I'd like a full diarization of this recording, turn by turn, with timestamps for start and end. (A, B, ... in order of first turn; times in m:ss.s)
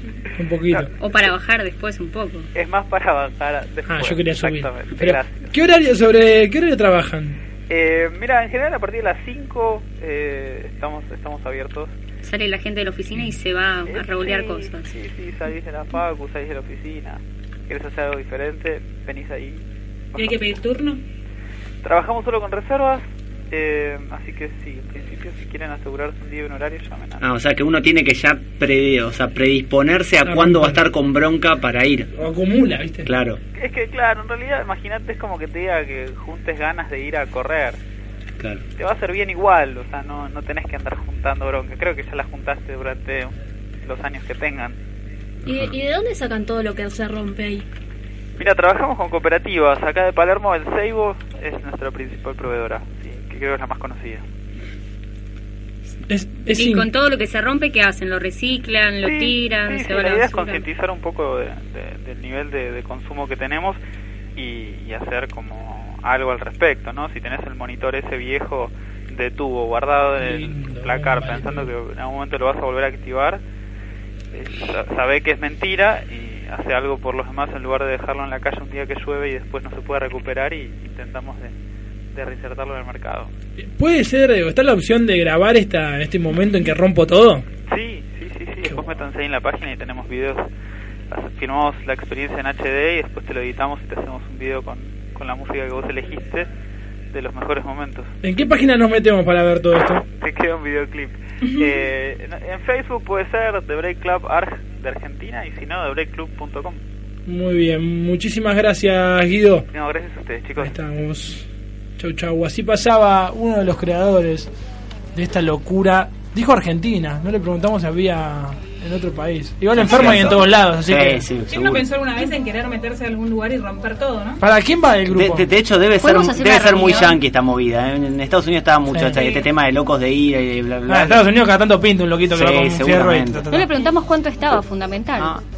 0:00.4-0:00.9 A
0:01.0-0:02.5 B
0:02.5-0:05.5 C
0:03.8-0:07.4 A
0:07.7-0:11.9 C
0:12.2-0:14.9 B
0:13.9-0:19.6 C
0:20.1-0:20.4 C
0:20.2-0:21.0 D
0:21.8-0:27.2 C
0:27.2-0:32.1 E
0:30.2-0:30.8 A
0:32.2-0:33.1 A
0:33.0-0:33.4 E
0:33.5-0:37.8 C
0:38.8-0:44.8 C
0:45.4-0:47.6 F
0:48.4-0:54.2 C
0:56.1-0:56.9 A
0:56.5-1:00.6 B
0:59.0-1:03.8 C
1:04.4-1:13.4 C
1:10.2-1:11.7 A
1:14.3-1:21.5 C
1:22.1-1:23.3 C
1:23.6-1:27.4 A
1:27.7-1:30.5 C
1:31.1-1:36.5 C
1:37.1-1:38.1 C
1:38.2-1:40.0 A
1:40.2-1:46.8 C
1:47.3-1:49.6 A
1:49.7-1:50.7 C
1:50.6-1:51.4 A
1:52.0-1:54.5 A
1:55.1-2:01.2 A
1:59.8-2:01.8 E
2:01.5-2:04.4 D
2:04.4-2:05.4 A
2:05.1-2:11.2 E
2:06.0-2:07.2 B
2:08.9-2:09.2 A
2:09.2-2:09.4 D
2:10.9-2:13.7 A
2:12.3-2:13.4 E
2:13.5-2:15.3 B